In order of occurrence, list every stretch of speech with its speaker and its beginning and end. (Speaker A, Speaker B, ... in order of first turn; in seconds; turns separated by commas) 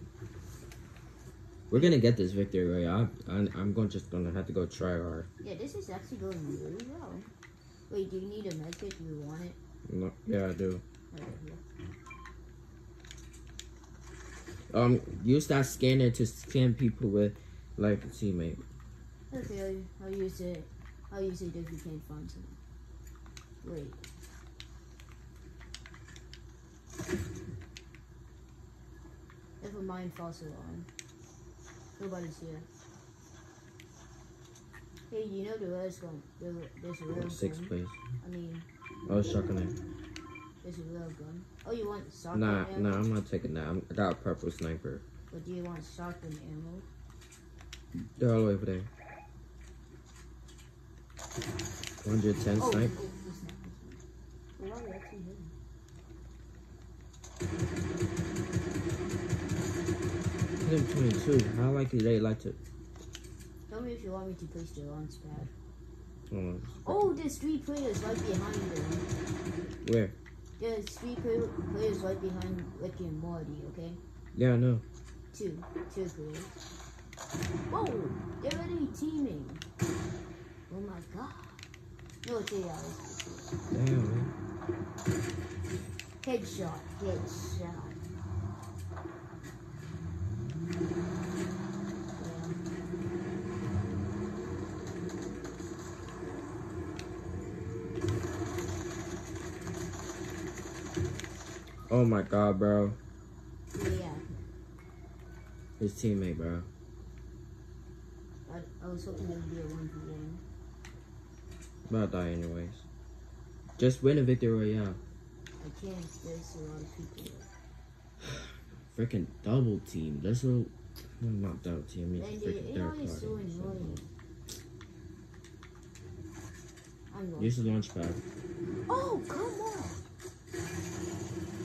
Speaker A: 1.7-5.3, Speaker B: 5.4-7.3, Speaker B: 7.9-9.6, Speaker A: 9.9-10.8, Speaker B: 11.1-11.6, Speaker A: 14.7-18.6, Speaker B: 19.3-22.6, Speaker B: 23.6-24.1, Speaker B: 29.6-30.9, Speaker B: 32.0-32.7, Speaker B: 35.1-38.7, Speaker A: 37.1-38.0, Speaker A: 39.1-39.8, Speaker B: 40.6-43.1, Speaker A: 42.3-45.0, Speaker B: 45.3-46.9, Speaker A: 48.0-48.9, Speaker A: 52.0-52.9, Speaker B: 52.6-54.0, Speaker B: 54.6-55.5, Speaker A: 60.6-62.6, Speaker B: 63.7-65.5, Speaker A: 66.3-67.2, Speaker B: 66.8-69.1, Speaker A: 69.8-70.2, Speaker B: 70.6-74.0, Speaker A: 74.3-74.8, Speaker B: 75.3-76.6, Speaker B: 77.7-79.6, Speaker B: 80.7-81.6, Speaker B: 82.2-83.5, Speaker A: 83.7-84.3, Speaker B: 86.2-88.0, Speaker B: 92.2-92.6, Speaker A: 101.9-103.0, Speaker B: 103.7-104.3, Speaker A: 105.8-106.7, Speaker B: 108.5-110.4, Speaker A: 111.9-112.9, Speaker A: 113.8-115.0, Speaker B: 115.6-117.5, Speaker A: 118.2-124.0, Speaker B: 122.2-124.1, Speaker B: 127.1-127.6, Speaker A: 127.4-128.2, Speaker B: 128.9-130.0